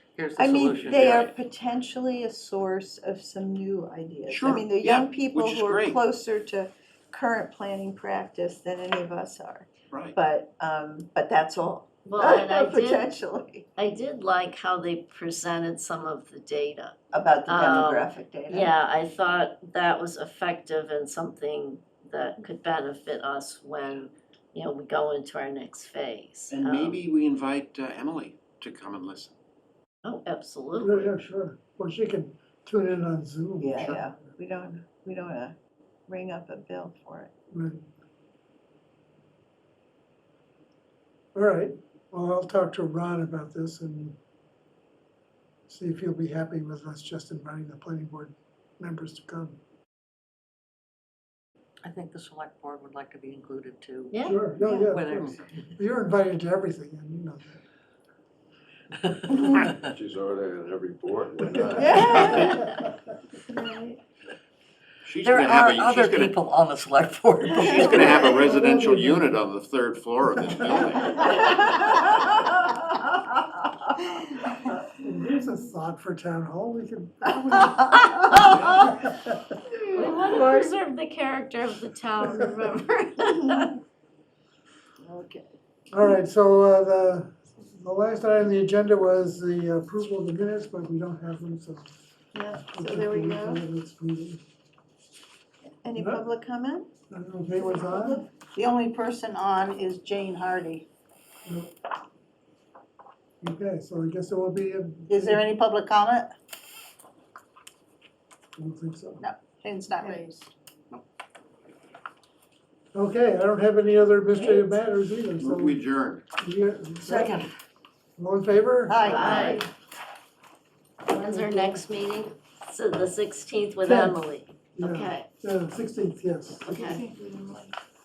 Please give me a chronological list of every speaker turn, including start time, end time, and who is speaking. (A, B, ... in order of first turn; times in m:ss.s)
0:00.2-0:01.2 A
0:00.4-0:13.7 B
0:00.8-0:01.3 C
0:04.3-0:06.0 C
0:09.9-0:10.2 C
0:12.0-0:13.1 D
0:13.8-0:17.0 D
0:17.1-0:18.7 B
0:17.5-0:27.0 D
0:26.5-0:29.4 C
0:30.0-0:31.2 D
0:30.8-0:34.0 E
0:33.6-0:35.6 B
0:36.1-0:37.3 B
0:37.5-0:37.8 E
0:41.4-0:44.2 E
0:45.7-0:49.6 E
0:51.8-0:54.1 A
0:54.2-0:57.6 E
0:54.6-0:54.9 B
0:54.7-0:55.7 A
0:55.1-0:55.5 C
0:59.0-0:59.8 A
0:59.4-0:59.6 B
0:59.8-1:02.6 F
1:01.7-1:02.7 B
1:03.5-1:04.0 B
1:05.0-1:06.4 C
1:05.2-1:08.3 A
1:07.6-1:11.6 C
1:07.9-1:09.4 E
1:10.5-1:10.8 E
1:14.7-1:19.4 E
1:17.4-1:18.6 B
1:19.8-1:23.7 D
1:20.0-1:20.7 B
1:25.0-1:25.5 B
1:25.9-1:31.9 E
1:32.3-1:33.6 B
1:32.7-1:34.4 E
1:35.8-1:36.9 B
1:36.0-1:36.2 E
1:37.1-1:38.2 E
1:37.6-1:38.4 B
1:38.6-1:40.8 G
1:41.5-1:41.7 E
1:43.4-1:45.5 E
1:45.1-1:46.2 G
1:48.6-1:49.2 E
1:49.6-1:50.5 G
1:52.9-1:55.8 E
1:55.4-1:56.2 C
1:56.4-1:57.4 E
1:57.0-1:57.5 A
1:58.2-1:59.6 E
1:58.9-1:59.7 B
1:59.1-1:59.7 D
2:01.0-2:05.3 D
2:01.1-2:01.8 E
2:03.8-2:04.2 E
2:04.8-2:06.7 E
2:06.6-2:07.0 D
2:06.7-2:07.7 B